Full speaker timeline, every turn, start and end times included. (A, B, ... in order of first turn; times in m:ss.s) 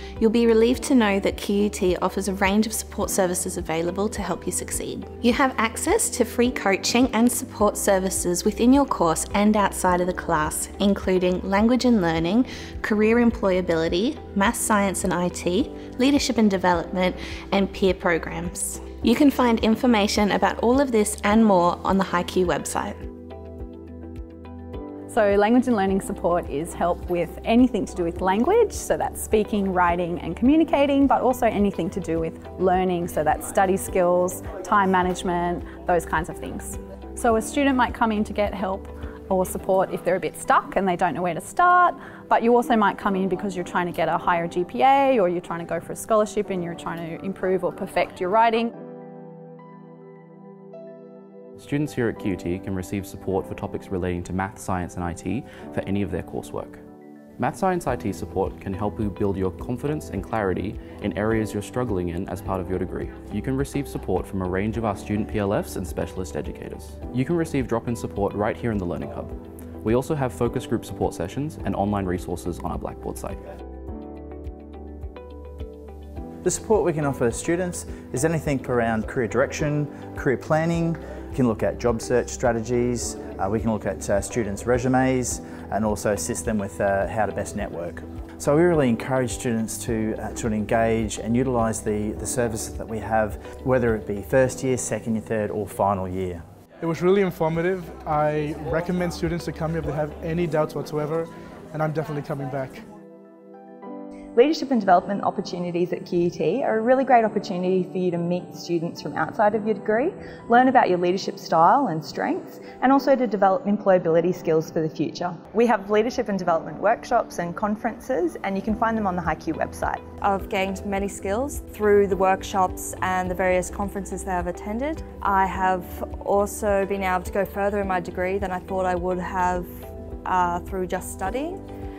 0:00.2-0:23.0 A
0:25.1-0:48.7 B
0:51.6-0:56.8 C
0:57.4-1:13.4 C
1:16.4-1:36.4 D
1:36.8-1:42.8 E
1:44.4-2:00.1 F
2:00.2-2:09.7 G
2:10.2-2:11.6 G